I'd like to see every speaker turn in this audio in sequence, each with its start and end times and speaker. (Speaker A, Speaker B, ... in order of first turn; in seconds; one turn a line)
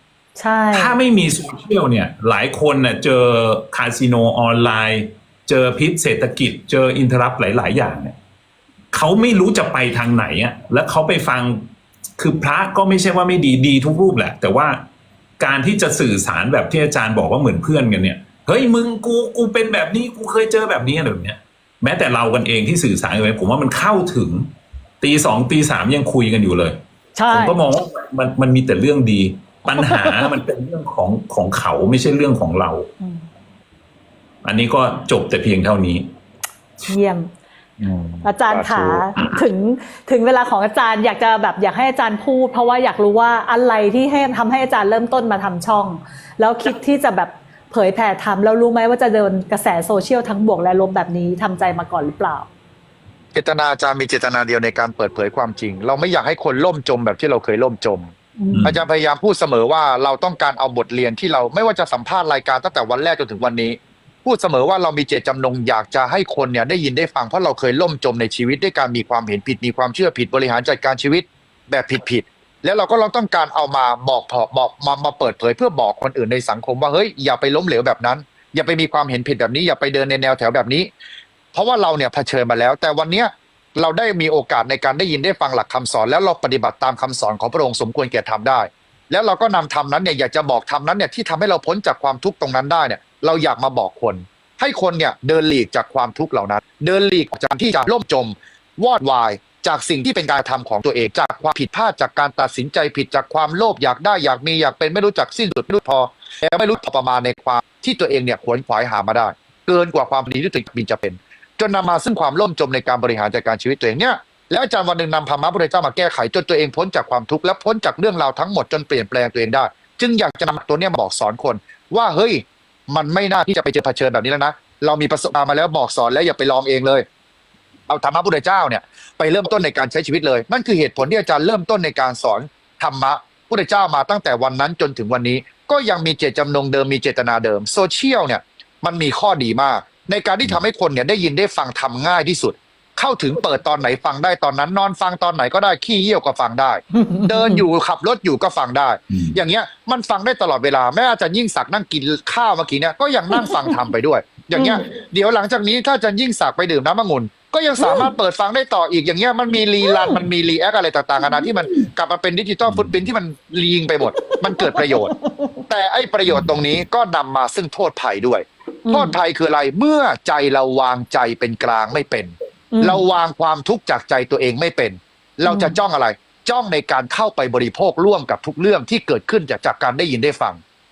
Speaker A: 0.4-1.0
Speaker B: 0.7-8.2
Speaker B: 8.9-14.8
Speaker B: 15.4-24.5
Speaker B: 25.0-26.8
Speaker A: 27.1-27.6
Speaker B: 27.3-32.9
Speaker A: 29.8-30.3
Speaker B: 34.4-36.1
Speaker A: 36.9-37.3
Speaker C: 37.8-39.1
Speaker A: 38.2-52.5
Speaker C: 53.3-58.1
Speaker A: 58.4-58.8
Speaker B: 58.5-58.8
Speaker C: 58.6-80.9
Speaker C: 81.5-127.0
Speaker C: 127.9-165.1
Speaker A: 146.9-147.6
Speaker A: 154.5-154.8
Speaker A: 157.8-158.1
Speaker A: 159.8-160.2
Speaker A: 161.2-161.9
Speaker B: 162.7-162.9
Speaker A: 164.2-165.6
Speaker C: 165.7-180.6
Speaker A: 168.9-169.2
Speaker A: 172.7-173.0
Speaker A: 175.5-175.8